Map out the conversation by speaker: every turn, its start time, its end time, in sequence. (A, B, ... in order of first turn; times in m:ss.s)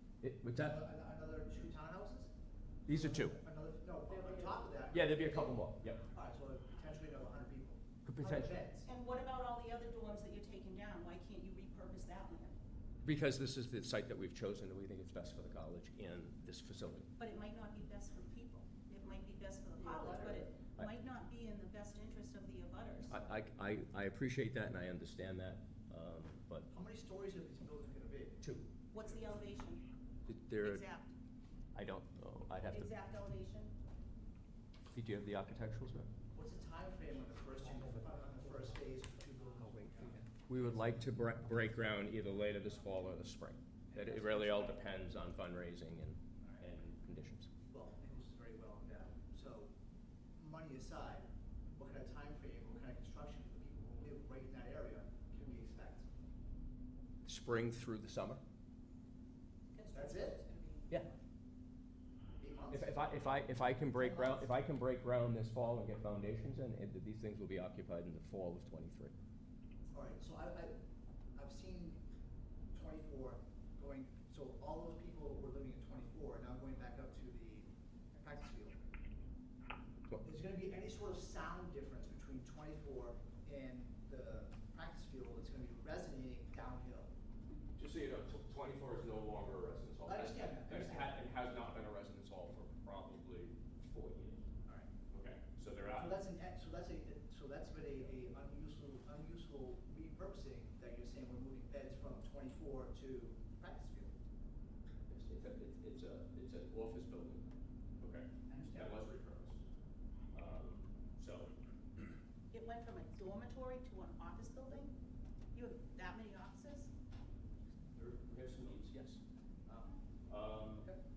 0:00.2-0:00.8 A
0:00.5-0:02.3 B
0:02.8-0:08.9 B
0:02.9-0:03.4 A
0:04.1-0:06.0 A
0:08.0-0:08.6 A
0:08.8-0:12.6 C
0:13.0-0:17.1 A
0:17.2-0:23.2 C
0:19.8-0:20.9 A
0:23.1-0:26.7 A
0:26.7-0:28.4 B
0:28.4-0:28.7 A
0:28.9-0:29.8 C
0:30.2-0:30.8 A
0:30.6-0:31.1 C
0:31.7-0:32.9 A
0:32.7-0:33.7 C
0:34.9-0:36.1 A
0:36.3-0:40.3 B
0:40.5-0:47.5 A
0:43.9-0:44.8 B
0:47.7-0:49.7 B
0:50.4-0:56.1 B
0:57.2-0:58.4 A
0:59.7-1:01.2 C
0:59.9-1:00.4 B
1:02.4-1:03.2 B
1:02.7-1:09.1 A
1:03.9-1:04.5 B
1:09.9-1:10.7 B
1:11.3-1:12.0 B
1:12.7-1:18.8 B
1:20.2-1:27.1 B
1:27.7-1:34.5 A
1:30.0-1:31.2 B
1:35.1-1:36.2 A
1:35.8-1:44.1 B
1:45.1-1:47.4 A
1:48.0-1:49.6 A
1:48.5-1:49.0 B
1:50.3-1:51.5 A
1:52.5-1:55.0 C
1:55.5-1:56.9 C
1:57.9-1:59.2 A
2:00.3-2:00.9 A